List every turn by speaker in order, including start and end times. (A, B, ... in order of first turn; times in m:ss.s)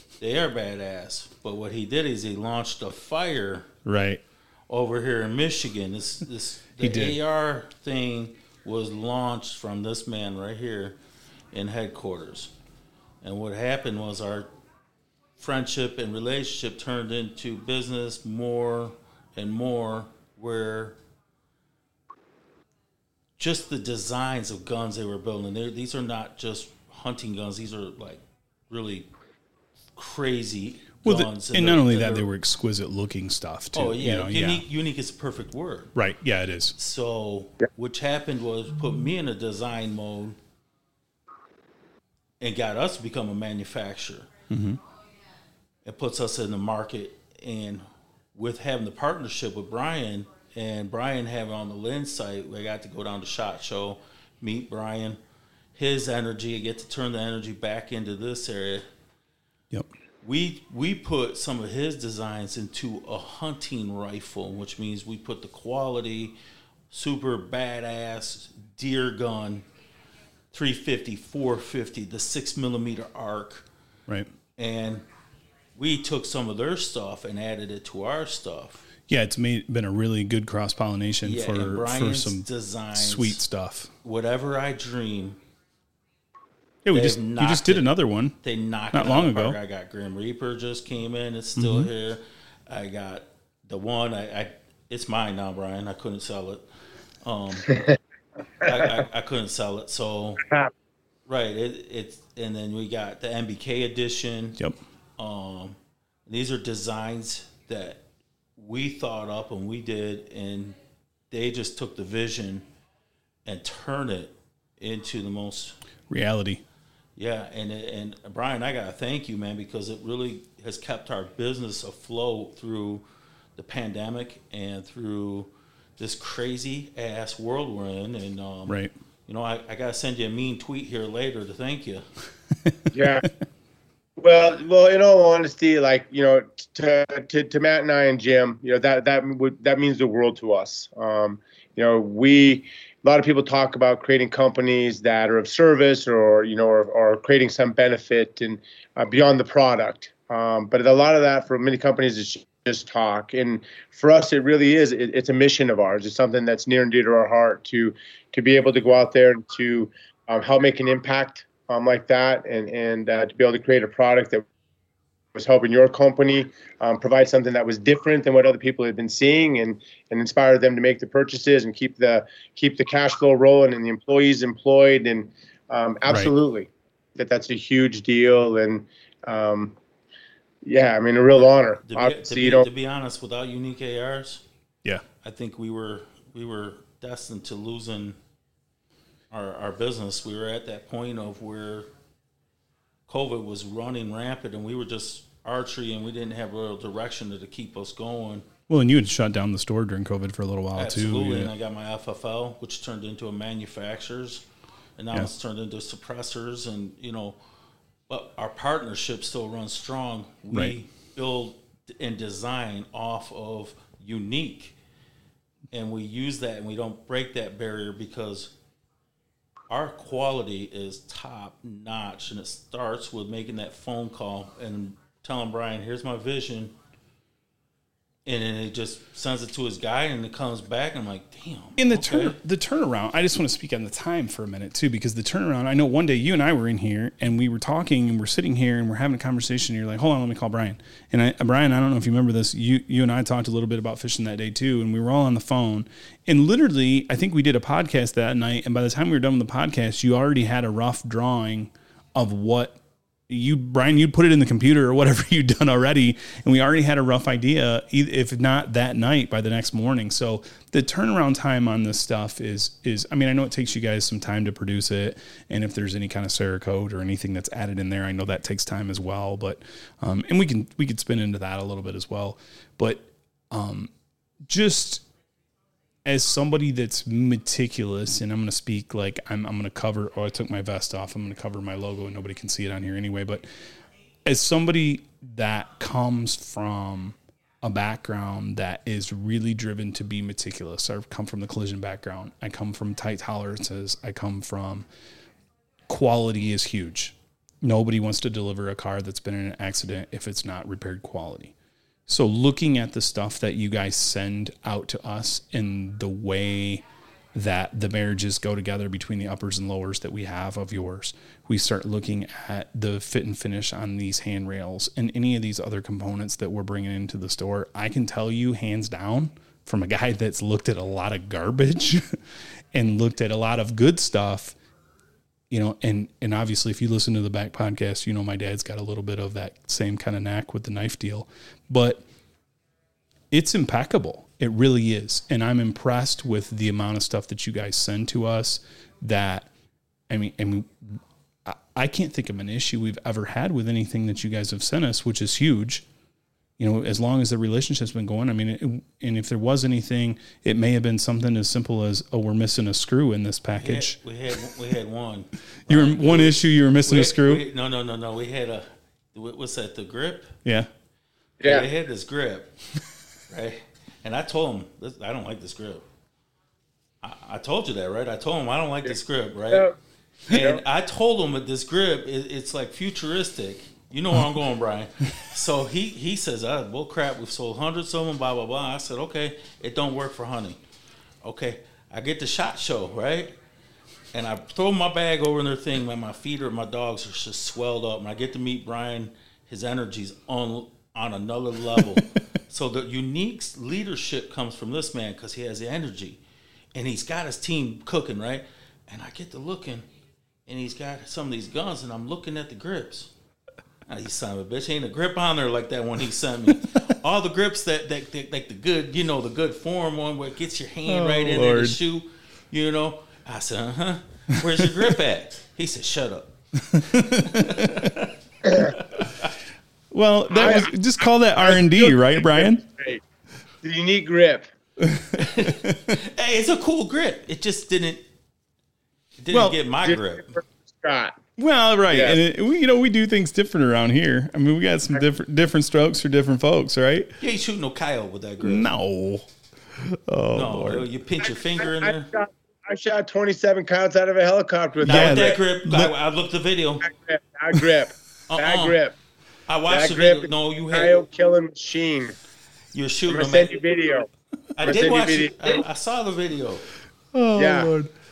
0:00.2-0:03.7 A
0:03.8-0:04.2 B
0:04.7-0:11.0 A
0:06.8-0:07.2 B
0:11.5-0:12.5 A
0:13.2-0:14.5 A
0:15.4-0:21.0 A
0:23.4-0:29.1 A
0:30.0-0:32.2 A
0:31.0-0:34.6 B
0:33.7-0:35.9 A
0:35.9-0:36.8 B
0:36.8-0:40.4 A
0:42.4-0:44.3 A
0:44.5-0:44.8 B
0:45.8-0:55.2 A
0:55.7-0:58.8 A
1:00.2-1:06.4 A
1:06.9-1:09.6 A
1:10.5-1:13.6 A
1:14.6-1:15.0 A
1:15.8-1:18.8 A
1:19.1-1:23.9 B
1:21.2-1:23.4 A
1:24.0-1:25.4 A
1:26.8-1:28.4 B
1:26.9-1:27.9 A
1:28.4-1:36.6 A
1:28.9-1:29.6 B
1:31.6-1:31.9 B
1:37.2-1:37.8 A
1:38.6-1:40.5 A
1:40.5-1:40.7 C
1:41.3-1:44.6 A
1:45.2-1:45.8 A
1:46.3-1:48.0 A
1:48.6-1:50.8 A
1:51.3-1:52.6 A
1:53.4-1:55.8 A
1:56.1-1:56.6 B
1:57.2-2:03.0 A
2:03.6-2:12.0 A
2:12.9-2:13.2 C
2:14.2-2:44.4 C
2:45.3-2:59.8 C
2:56.1-2:56.3 B
3:00.6-3:02.7 C
3:01.9-3:04.4 A
3:05.2-3:08.2 A
3:09.3-3:11.9 A
3:13.1-3:18.5 A
3:18.7-3:21.5 B
3:20.8-3:24.4 A
3:25.0-3:27.4 A
3:28.1-3:34.8 A
3:35.7-3:38.5 A
3:39.7-3:46.7 A
3:48.2-3:52.4 A
3:51.8-4:33.9 B
4:34.5-4:35.0 B
4:36.0-4:43.4 B
4:44.2-4:54.9 B
4:55.9-5:01.5 B
5:02.1-5:22.2 B
5:22.7-5:24.6 B
5:25.5-5:32.0 B
5:33.3-5:39.5 B
5:40.1-5:45.8 B
5:46.6-5:54.0 B
5:53.6-6:00.3 A
5:55.7-5:57.4 B
6:01.4-6:01.6 C
6:01.4-6:02.5 A
6:03.3-6:05.8 A
6:07.0-6:09.7 A
6:10.3-6:20.6 A
6:10.3-6:10.6 C
6:21.2-6:23.3 A
6:24.1-6:36.2 A
6:31.7-6:32.2 B
6:36.7-6:39.8 A
6:40.5-6:43.1 A
6:43.9-6:56.3 A
6:50.9-6:51.8 B
6:56.6-6:57.9 B
6:56.9-6:59.3 A
6:58.4-6:58.7 C
6:59.9-7:02.6 B
7:00.3-7:00.7 C
7:01.4-7:03.0 C
7:03.6-7:04.5 C
7:04.8-7:06.0 B
7:05.2-7:08.0 A
7:09.2-7:10.4 A
7:09.3-7:09.6 B
7:09.8-7:11.2 C
7:11.4-7:17.1 B
7:11.9-7:12.2 C
7:17.2-7:18.7 A
7:18.4-7:20.8 B
7:20.3-7:22.1 A
7:21.6-7:25.4 C
7:24.8-7:25.9 B
7:24.8-7:26.8 A
7:26.8-7:29.0 C
7:28.3-7:28.8 A
7:29.5-7:31.0 A
7:29.7-7:32.2 C
7:32.7-7:33.6 A
7:33.1-7:34.1 C
7:34.6-7:36.6 A
7:34.6-7:35.6 C
7:37.1-7:37.9 B
7:37.4-7:37.7 C